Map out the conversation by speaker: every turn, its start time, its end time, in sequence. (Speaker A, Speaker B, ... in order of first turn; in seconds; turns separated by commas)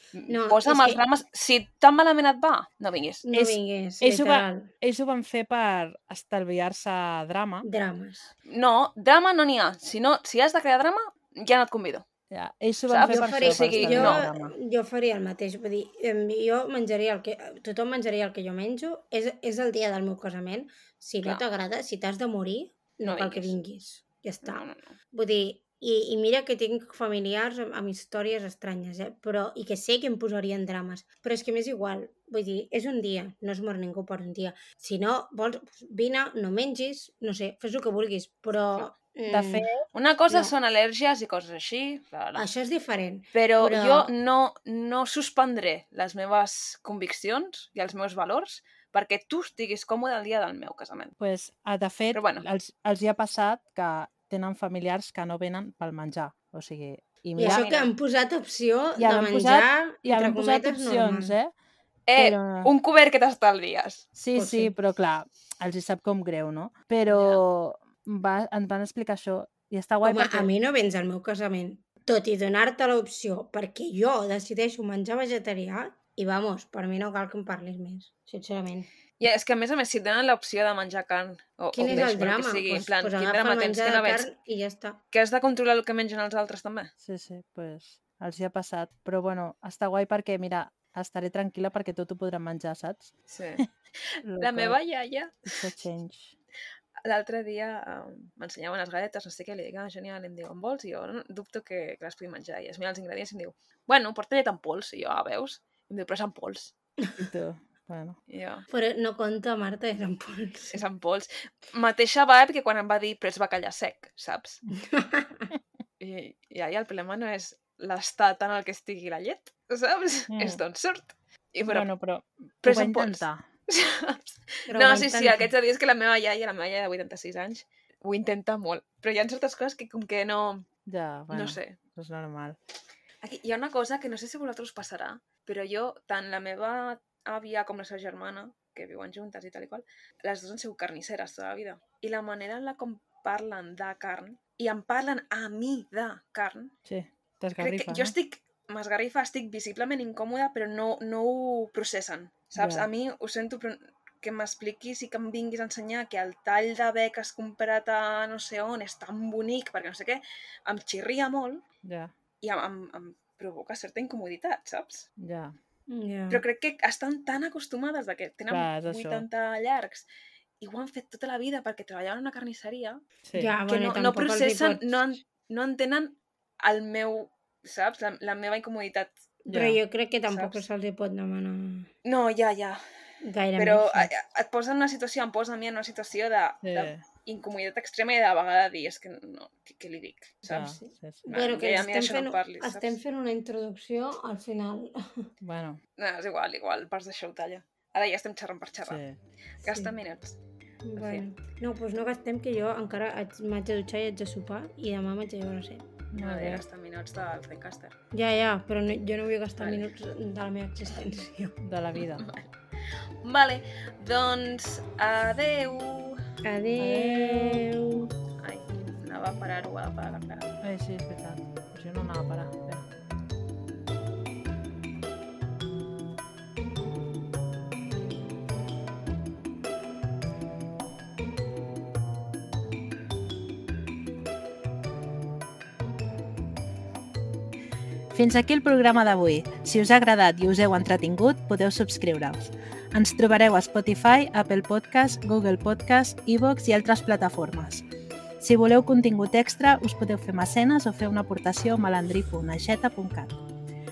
Speaker A: 0.1-3.2, Speaker B: 0.3-1.0, Speaker B: 3.2-4.7, Speaker C: 3.3-7.7, Speaker B: 7.6-8.3, Speaker A: 8.5-12.1, Speaker C: 12.3-14.5, Speaker A: 12.9-14.3, Speaker B: 13.0-39.7, Speaker A: 23.0-23.6, Speaker A: 24.4-24.9, Speaker C: 39.3-39.8, Speaker A: 39.9-42.4, Speaker B: 42.4-44.1, Speaker A: 43.3-51.1, Speaker C: 51.2-57.7, Speaker A: 52.1-52.4, Speaker B: 57.4-61.4, Speaker A: 57.4-57.9, Speaker C: 59.0-61.5, Speaker A: 62.1-64.1, Speaker C: 62.1-62.7, Speaker C: 64.2-70.5, Speaker B: 64.3-64.7, Speaker A: 67.1-67.4, Speaker B: 70.0-78.9, Speaker A: 79.2-84.3, Speaker B: 81.7-85.0, Speaker C: 81.9-82.3, Speaker A: 85.1-86.9, Speaker C: 87.0-93.6, Speaker A: 93.3-95.7, Speaker C: 94.2-94.8, Speaker C: 95.5-96.3, Speaker A: 97.0-106.7, Speaker C: 107.2-108.2, Speaker A: 108.3-108.7, Speaker B: 108.7-110.8, Speaker A: 110.7-114.6, Speaker B: 114.7-115.5, Speaker A: 116.0-121.9, Speaker C: 120.3-120.6, Speaker C: 121.7-123.4, Speaker A: 122.6-130.7, Speaker B: 124.7-125.5, Speaker C: 130.9-132.6, Speaker A: 131.3-131.8, Speaker A: 133.2-146.7, Speaker C: 146.8-148.1, Speaker A: 147.6-161.6, Speaker C: 152.6-152.9, Speaker C: 161.8-162.1, Speaker A: 162.4-165.1, Speaker C: 165.2-165.6, Speaker B: 165.9-166.4, Speaker A: 166.3-170.1, Speaker C: 168.5-169.3, Speaker A: 170.6-173.0, Speaker C: 173.2-173.6, Speaker B: 173.3-174.9, Speaker A: 173.7-179.2, Speaker B: 179.4-181.9, Speaker C: 179.5-179.8, Speaker A: 180.3-180.6, Speaker A: 182.1-182.8, Speaker B: 183.2-184.1, Speaker A: 183.6-190.7, Speaker C: 186.6-187.0, Speaker C: 190.5-191.3, Speaker B: 190.5-195.3, Speaker A: 191.3-193.0, Speaker C: 195.4-195.8, Speaker A: 196.0-199.0, Speaker C: 198.8-199.2, Speaker A: 199.6-200.4, Speaker B: 199.6-199.9, Speaker B: 200.8-205.9, Speaker A: 201.0-201.2, Speaker C: 206.1-206.6, Speaker A: 206.1-207.9, Speaker B: 208.1-211.6, Speaker A: 209.6-209.9, Speaker C: 211.6-212.3, Speaker A: 212.0-212.5, Speaker A: 213.2-216.2, Speaker B: 216.4-218.1, Speaker C: 216.8-217.6, Speaker A: 218.4-220.5, Speaker C: 220.6-222.9, Speaker C: 238.1-247.8, Speaker C: 248.4-253.4